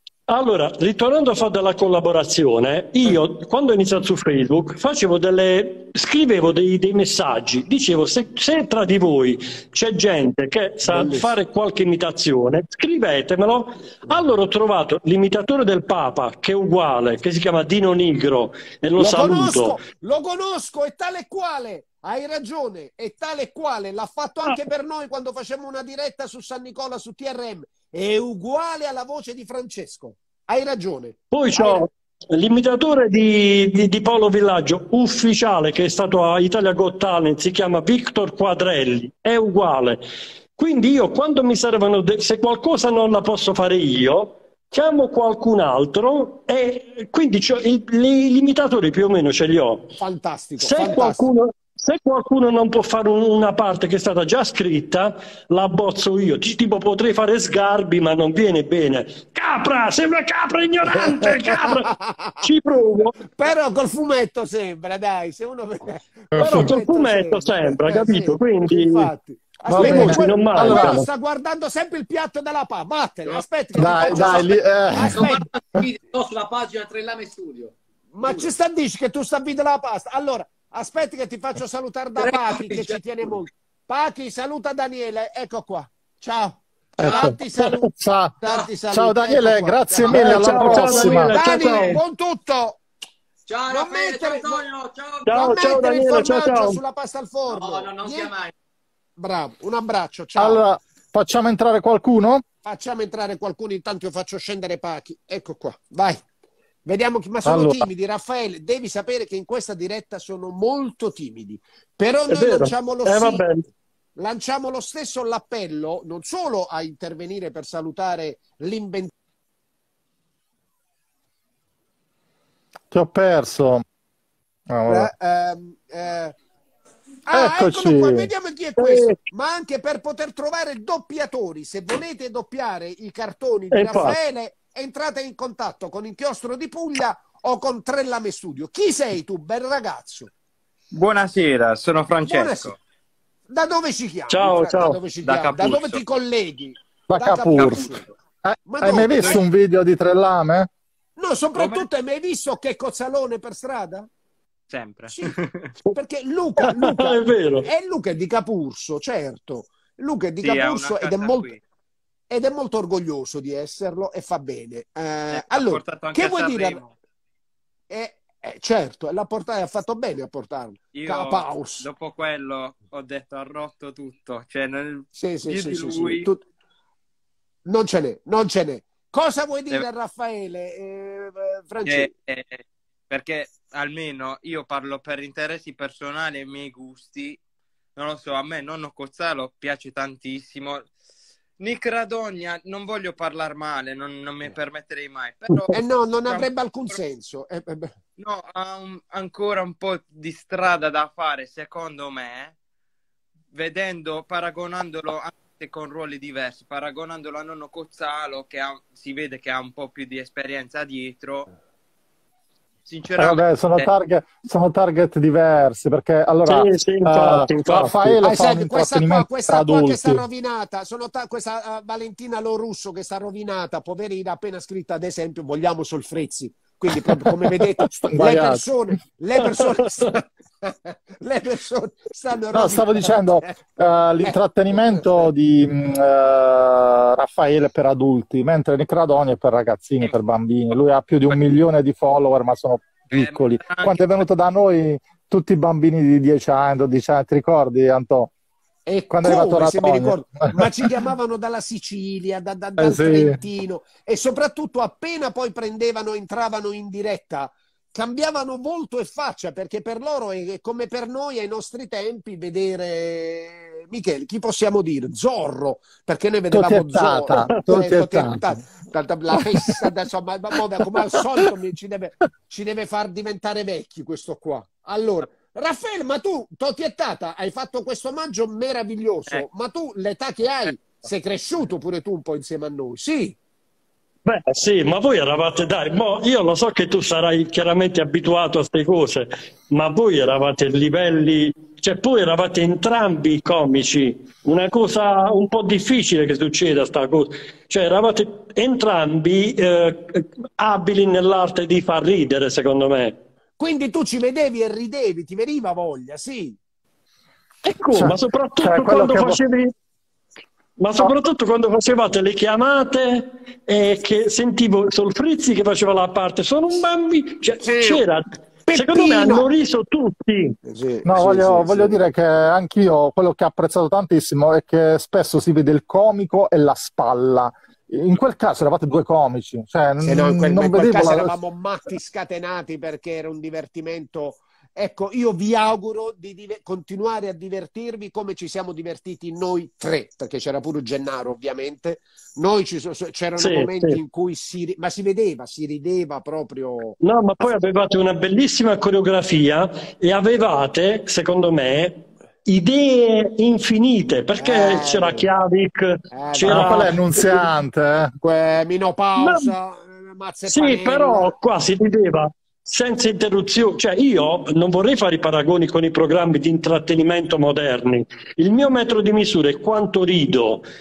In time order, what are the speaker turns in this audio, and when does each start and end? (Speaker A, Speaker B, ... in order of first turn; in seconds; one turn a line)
Speaker A: 0.3-19.8
Speaker B: 10.9-11.3
Speaker B: 19.0-31.9
Speaker A: 31.3-40.0
Speaker A: 40.6-49.9
Speaker B: 50.0-51.3
Speaker A: 50.6-63.2
Speaker B: 60.9-62.5
Speaker B: 63.2-75.5
Speaker C: 66.3-66.7
Speaker A: 66.4-69.1
Speaker C: 69.7-71.0
Speaker A: 69.8-71.1
Speaker C: 73.8-75.3
Speaker D: 74.0-74.5
Speaker D: 75.0-78.5
Speaker B: 78.1-92.8
Speaker D: 82.2-83.4
Speaker C: 87.0-91.4
Speaker D: 87.0-87.3
Speaker A: 90.1-92.0
Speaker D: 93.5-95.3
Speaker B: 93.7-94.7
Speaker A: 95.3-96.8
Speaker B: 95.3-98.3
Speaker D: 97.5-98.5
Speaker B: 99.2-100.6
Speaker C: 100.4-102.4
Speaker B: 102.7-106.2
Speaker B: 106.8-113.4
Speaker C: 107.5-107.9
Speaker A: 112.3-113.7
Speaker B: 114.2-119.1
Speaker C: 122.9-123.8
Speaker C: 124.7-125.1
Speaker B: 124.9-126.4
Speaker B: 127.3-140.3
Speaker C: 127.3-128.3
Speaker A: 128.8-129.2
Speaker A: 133.7-134.2
Speaker E: 140.9-142.8
Speaker B: 142.3-142.7
Speaker B: 143.5-148.1
Speaker A: 144.3-145.0
Speaker E: 145.2-146.0
Speaker C: 147.1-147.9
Speaker E: 147.6-147.9
Speaker C: 148.4-150.7
Speaker B: 148.7-149.4
Speaker B: 151.2-154.1
Speaker E: 151.6-151.9
Speaker E: 154.7-155.7
Speaker B: 155.1-155.3
Speaker B: 155.9-161.5
Speaker A: 156.6-157.7
Speaker E: 160.4-161.6
Speaker B: 162.3-166.8
Speaker E: 165.3-166.9
Speaker B: 167.9-171.9
Speaker E: 170.9-176.3
Speaker B: 175.1-176.4
Speaker B: 177.7-182.1
Speaker E: 181.9-187.4
Speaker E: 188.0-190.9
Speaker E: 191.6-195.8
Speaker B: 195.7-197.9
Speaker E: 196.3-196.9
Speaker E: 198.2-202.6
Speaker E: 203.5-211.5
Speaker E: 212.9-213.9
Speaker C: 213.2-220.2
Speaker A: 216.5-218.2
Speaker B: 218.2-233.6
Speaker C: 227.5-228.7
Speaker C: 232.5-248.3
Speaker B: 234.2-235.3
Speaker E: 243.2-244.2
Speaker B: 248.9-283.4
Speaker C: 249.1-250.7
Speaker C: 252.8-253.4
Speaker C: 266.5-268.6
Speaker C: 269.4-269.8
Speaker A: 284.2-303.2
Speaker B: 303.6-306.6
Speaker A: 307.6-309.7
Speaker C: 307.9-309.4
Speaker A: 310.8-320.6
Speaker B: 317.6-318.0
Speaker B: 318.7-319.5
Speaker B: 320.6-322.1
Speaker C: 321.1-331.3
Speaker B: 330.0-347.0
Speaker A: 343.4-344.0
Speaker A: 347.0-357.0
Speaker B: 354.4-355.3
Speaker B: 356.1-357.5
Speaker C: 356.5-358.1
Speaker B: 358.2-361.3
Speaker A: 359.2-359.5
Speaker A: 360.5-370.7